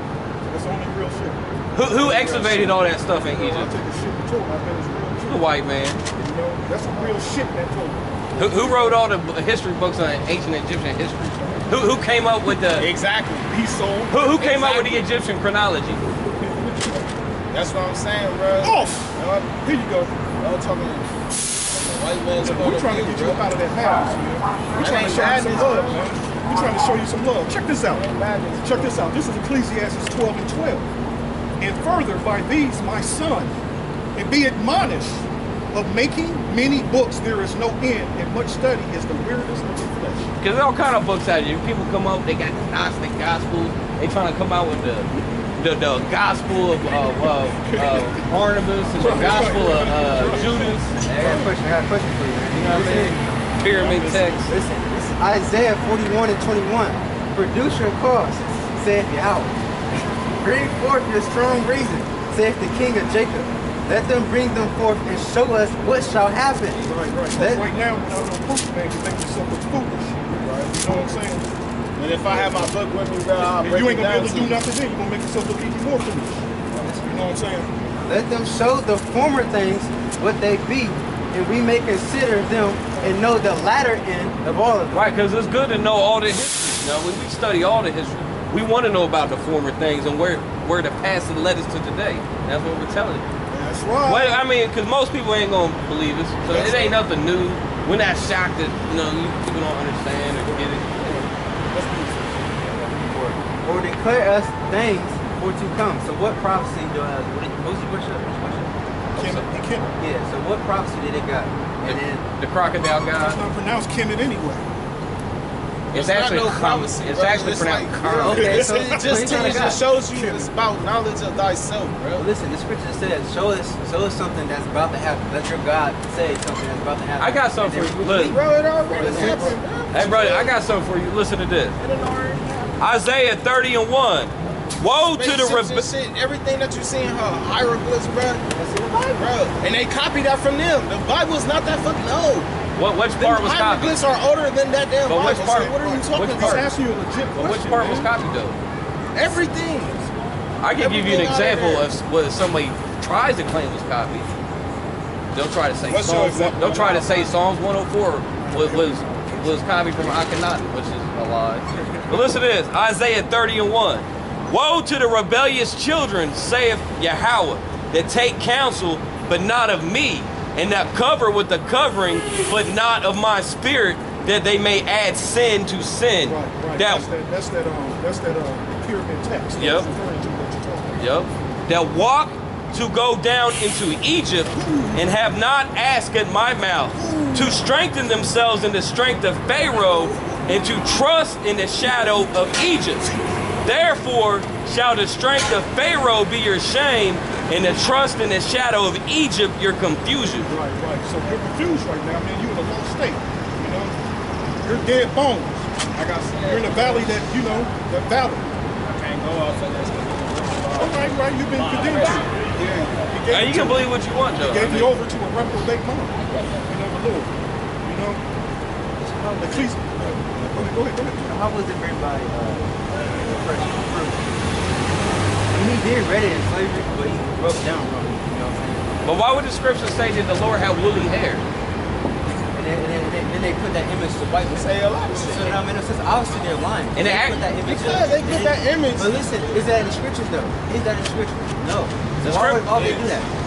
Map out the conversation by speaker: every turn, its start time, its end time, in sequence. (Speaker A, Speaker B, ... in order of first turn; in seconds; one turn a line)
Speaker A: 0.5-5.4
Speaker B: 1.7-3.7
Speaker B: 5.3-6.0
Speaker A: 6.1-9.0
Speaker B: 8.4-12.9
Speaker C: 12.8-13.5
Speaker A: 13.5-15.1
Speaker B: 14.1-16.0
Speaker A: 16.4-17.1
Speaker C: 17.5-19.5
Speaker A: 18.6-20.2
Speaker C: 20.4-21.1
Speaker C: 21.7-23.4
Speaker A: 22.4-28.1
Speaker C: 24.8-26.0
Speaker C: 27.9-29.0
Speaker A: 28.6-30.9
Speaker A: 31.6-33.6
Speaker A: 34.1-40.3
Speaker B: 40.4-50.9
Speaker A: 46.7-48.2
Speaker A: 49.0-51.5
Speaker D: 51.0-53.2
Speaker B: 52.5-54.5
Speaker D: 54.5-59.5
Speaker D: 60.4-67.7
Speaker A: 66.8-71.5
Speaker C: 70.4-70.7
Speaker C: 72.0-74.6
Speaker A: 72.3-72.7
Speaker A: 73.6-76.4
Speaker D: 76.8-77.0
Speaker A: 77.0-77.7
Speaker D: 78.1-85.1
Speaker B: 84.9-93.2
Speaker A: 93.5-94.4
Speaker B: 94.0-101.2
Speaker A: 96.5-97.0
Speaker A: 101.7-102.4
Speaker D: 102.7-108.7
Speaker B: 109.1-109.5
Speaker A: 109.2-109.9
Speaker D: 110.0-112.2
Speaker B: 111.8-113.4
Speaker A: 113.1-114.7
Speaker B: 115.9-118.7
Speaker C: 115.9-122.2
Speaker D: 118.0-119.8
Speaker A: 118.2-120.5
Speaker D: 122.2-129.6
Speaker B: 127.2-128.3
Speaker C: 128.1-130.5
Speaker A: 128.9-129.6
Speaker B: 129.9-131.8
Speaker C: 131.8-132.7
Speaker B: 132.8-135.9
Speaker C: 135.1-138.4
Speaker D: 138.5-139.3
Speaker C: 139.1-142.5
Speaker B: 142.8-144.0
Speaker C: 143.2-146.7
Speaker B: 145.1-146.7
Speaker A: 145.1-148.1
Speaker B: 147.3-148.6
Speaker C: 149.1-150.0
Speaker B: 150.6-154.3
Speaker C: 150.8-151.9
Speaker B: 155.3-177.1
Speaker C: 155.9-157.3
Speaker A: 156.2-157.0
Speaker A: 158.5-160.3
Speaker A: 161.7-162.3
Speaker A: 176.2-181.0
Speaker B: 179.6-179.9
Speaker B: 181.0-193.1
Speaker A: 184.5-185.0
Speaker A: 186.9-187.6
Speaker B: 193.6-200.5
Speaker A: 200.3-204.0
Speaker A: 204.6-205.7
Speaker C: 205.9-207.1
Speaker A: 206.4-208.5
Speaker C: 208.9-213.0
Speaker A: 210.7-212.3
Speaker A: 213.0-217.3
Speaker B: 213.3-214.9
Speaker A: 217.8-218.2
Speaker D: 219.1-219.7
Speaker A: 219.4-221.3
Speaker D: 221.2-224.3
Speaker D: 225.5-229.0
Speaker B: 229.0-231.4
Speaker D: 232.5-243.3
Speaker C: 234.5-235.6
Speaker B: 236.9-237.4
Speaker C: 237.6-239.1
Speaker B: 242.2-243.0
Speaker C: 242.3-243.2